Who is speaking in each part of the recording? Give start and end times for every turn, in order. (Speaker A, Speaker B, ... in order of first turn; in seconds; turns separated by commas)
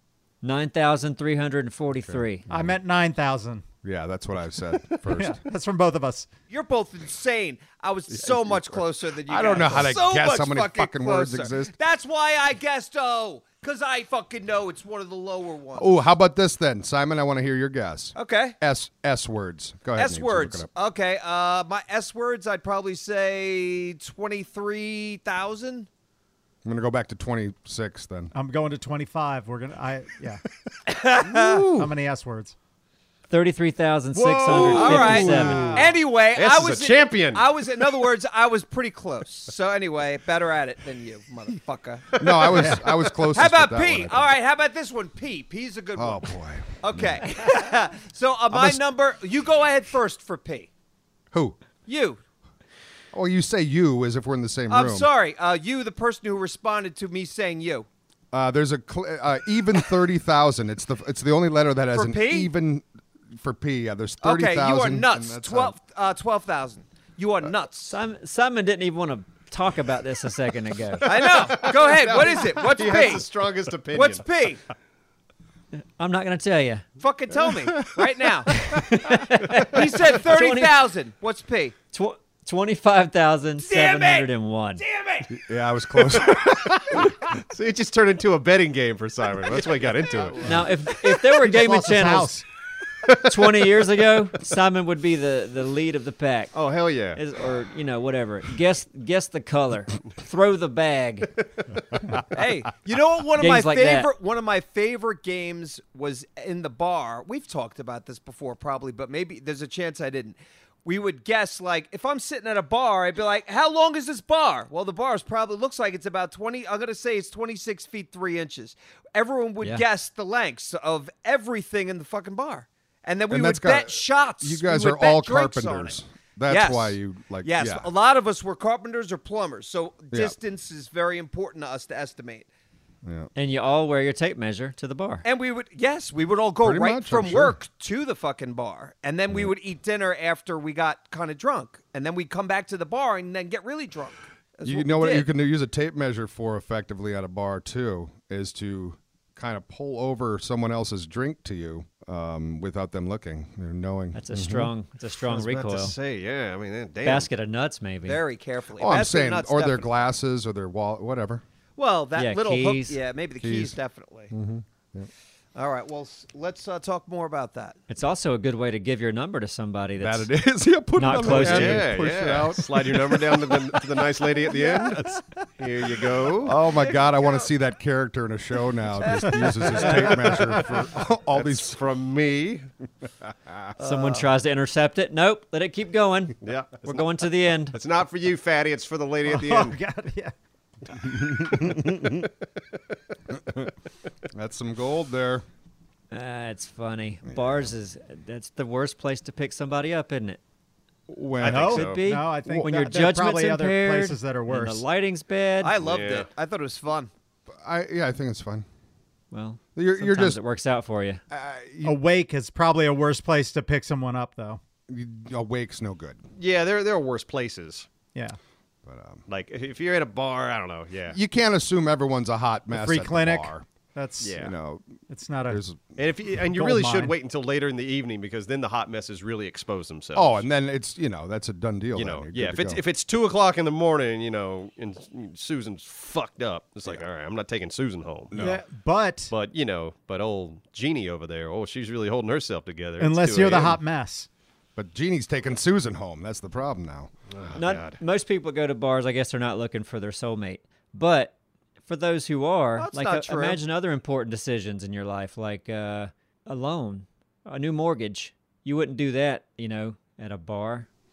Speaker A: 0.4-2.4, Speaker B: 2.1-2.8, Speaker C: 2.5-3.6, Speaker B: 3.8-5.4, Speaker C: 5.1-6.3, Speaker D: 6.5-15.9, Speaker B: 8.1-11.7, Speaker B: 15.8-20.7, Speaker D: 18.1-18.6, Speaker D: 19.9-25.9, Speaker B: 26.6-28.3, Speaker C: 28.3-30.4, Speaker D: 30.9-31.7, Speaker B: 31.2-31.9, Speaker C: 31.7-32.6, Speaker A: 33.3-35.8, Speaker C: 34.1-35.9, Speaker D: 34.5-50.7, Speaker B: 34.8-35.8, Speaker E: 35.6-38.0, Speaker E: 42.1-42.4, Speaker B: 42.2-44.3, Speaker C: 42.5-42.8, Speaker B: 46.0-47.3, Speaker B: 48.5-48.8, Speaker B: 51.3-51.6, Speaker D: 51.9-52.2, Speaker B: 53.1-55.1, Speaker D: 54.7-57.9, Speaker B: 58.3-65.8, Speaker D: 61.9-62.5, Speaker D: 64.2-67.9, Speaker A: 67.9-71.3, Speaker D: 71.0-73.3, Speaker E: 71.0-74.3, Speaker D: 73.9-74.6, Speaker A: 76.0-76.8, Speaker D: 77.0-78.7, Speaker A: 78.5-80.8, Speaker D: 79.4-81.8, Speaker A: 81.9-84.8, Speaker D: 83.6-85.3, Speaker B: 85.3-87.1, Speaker E: 86.2-90.5, Speaker A: 90.4-92.3, Speaker C: 91.4-92.5, Speaker E: 93.0-93.3, Speaker A: 93.1-96.6, Speaker E: 96.5-97.2, Speaker A: 97.1-101.4, Speaker D: 102.3-132.5, Speaker A: 103.4-104.1, Speaker B: 123.3-127.9, Speaker B: 133.0-133.3, Speaker A: 133.4-135.2, Speaker D: 135.2-145.3, Speaker B: 136.6-137.6, Speaker B: 144.7-154.7, Speaker A: 154.2-155.9, Speaker E: 155.2-157.3, Speaker A: 157.0-158.2, Speaker D: 158.1-159.9, Speaker B: 158.8-161.4, Speaker D: 161.8-164.3, Speaker A: 162.2-163.0, Speaker B: 163.4-163.8, Speaker B: 164.3-165.1, Speaker D: 165.6-167.8, Speaker A: 167.9-170.3, Speaker B: 170.0-175.2, Speaker A: 171.0-171.9, Speaker E: 171.2-176.6, Speaker B: 176.4-181.8, Speaker D: 176.7-177.5, Speaker D: 179.0-180.3, Speaker E: 181.3-182.7, Speaker D: 183.8-184.3, Speaker A: 183.8-187.8, Speaker E: 186.4-189.8, Speaker C: 189.3-190.3, Speaker B: 191.0-192.3, Speaker B: 193.3-193.7, Speaker B: 194.3-195.4, Speaker A: 196.1-200.4, Speaker B: 197.3-197.7, Speaker B: 201.1-201.8, Speaker E: 201.4-202.1, Speaker C: 201.4-204.8, Speaker A: 201.5-205.8, Speaker D: 205.6-207.1, Speaker E: 205.8-206.3, Speaker B: 207.5-208.7, Speaker A: 209.3-211.2, Speaker B: 209.8-210.4, Speaker B: 211.3-212.0, Speaker C: 211.8-214.6, Speaker B: 214.9-216.2, Speaker E: 216.4-217.9, Speaker B: 218.9-219.2, Speaker E: 219.3-221.2, Speaker B: 221.1-223.7, Speaker C: 222.7-224.4, Speaker E: 224.2-224.5, Speaker B: 224.4-224.8, Speaker C: 225.1-225.6, Speaker B: 225.5-225.9, Speaker E: 226.0-230.4, Speaker C: 226.5-227.2, Speaker B: 230.2-232.8, Speaker E: 231.9-238.4, Speaker B: 238.3-238.6, Speaker C: 238.4-239.3, Speaker E: 239.3-243.8, Speaker C: 243.0-244.3, Speaker B: 244.8-247.1, Speaker E: 247.3-248.0, Speaker A: 247.6-251.3, Speaker A: 251.8-260.9, Speaker D: 252.8-253.6